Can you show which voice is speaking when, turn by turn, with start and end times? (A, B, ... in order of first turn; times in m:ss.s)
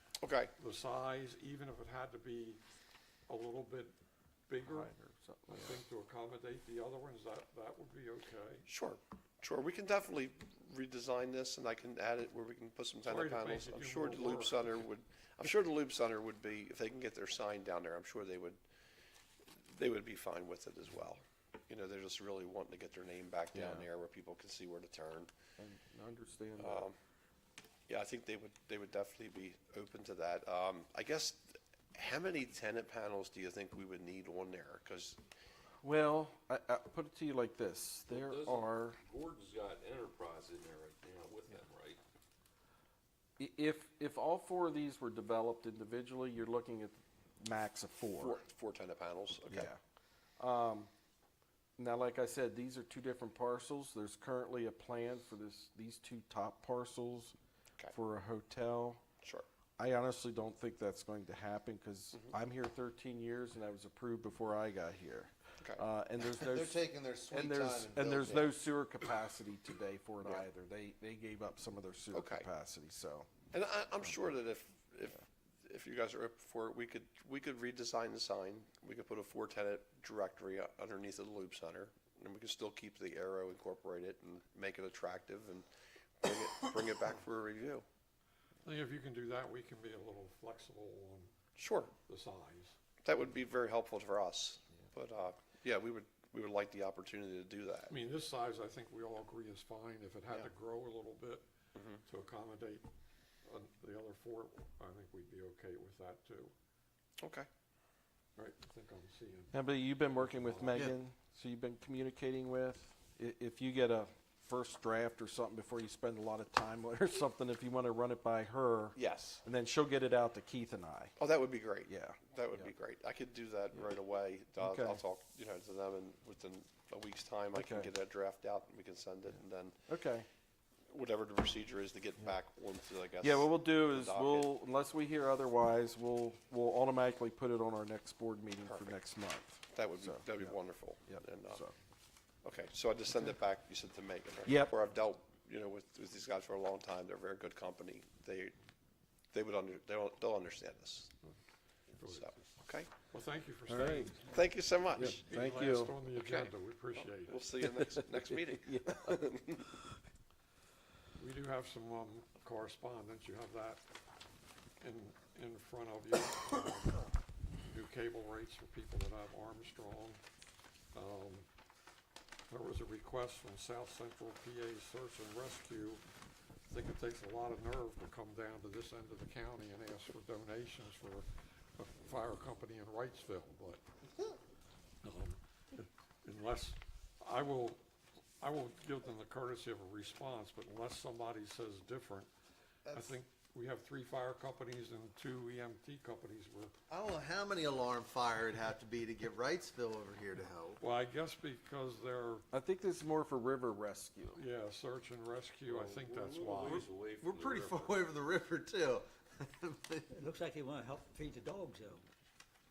0:00.2-0:00.5 A
0:00.6-0:02.6 B
0:03.3-0:03.9 B
0:04.5-0:04.9 B
0:04.6-0:05.8 C
0:05.5-0:08.7 B
0:08.7-0:18.6 A
0:13.0-0:14.8 B
0:19.4-0:25.3 A
0:23.5-0:23.9 C
0:25.6-0:26.9 C
0:26.6-0:27.0 A
0:27.9-0:35.2 A
0:35.8-0:39.0 C
0:38.1-0:42.0 D
0:43.4-0:48.4 C
0:48.2-0:49.7 A
0:49.5-0:49.8 C
0:50.4-0:50.9 C
0:51.8-0:57.3 C
0:57.9-0:59.0 C
0:59.8-1:13.3 C
1:06.5-1:08.5 A
1:06.6-1:06.9 E
1:07.7-1:08.4 E
1:12.1-1:12.4 A
1:13.5-1:25.7 A
1:26.2-1:27.8 A
1:28.6-1:31.3 B
1:31.6-1:31.9 A
1:32.0-1:32.8 B
1:33.0-1:37.9 A
1:37.9-1:41.4 B
1:41.7-1:42.0 A
1:42.0-1:42.9 B
1:43.4-1:46.5 B
1:47.2-1:47.5 A
1:48.4-1:49.6 B
1:49.5-2:01.2 C
1:50.1-1:50.9 B
1:59.0-1:59.4 A
2:01.2-2:09.8 A
2:01.9-2:02.7 C
2:04.6-2:05.0 C
2:07.5-2:07.9 C
2:09.9-2:10.2 C
2:10.9-2:14.5 A
2:13.2-2:21.7 C
2:18.6-2:19.0 A
2:19.7-2:21.6 A
2:22.4-2:28.5 A
2:24.4-2:24.7 C
2:29.3-2:31.1 A
2:32.0-2:32.4 B
2:32.0-2:32.9 A
2:33.1-2:34.1 B
2:33.7-2:34.2 C
2:34.1-2:34.4 F
2:34.3-2:35.2 A
2:34.9-2:36.1 C
2:35.0-2:37.4 B
2:36.2-2:39.7 A
2:37.6-2:39.1 C
2:41.2-2:43.8 B
2:44.8-2:47.1 B
2:47.7-2:50.2 B
2:50.9-2:51.5 B
2:52.5-2:56.0 B
2:56.7-3:03.8 B
3:05.0-3:07.8 B
3:08.4-3:12.3 B
3:12.9-3:16.7 B
3:16.9-3:20.8 E
3:16.9-3:18.1 A
3:20.8-3:22.4 B
3:22.5-3:24.4 C
3:24.3-3:26.9 B
3:25.7-3:28.1 D
3:27.2-3:27.9 A
3:27.2-3:29.0 E
3:29.6-3:30.1 E
3:30.1-3:32.0 F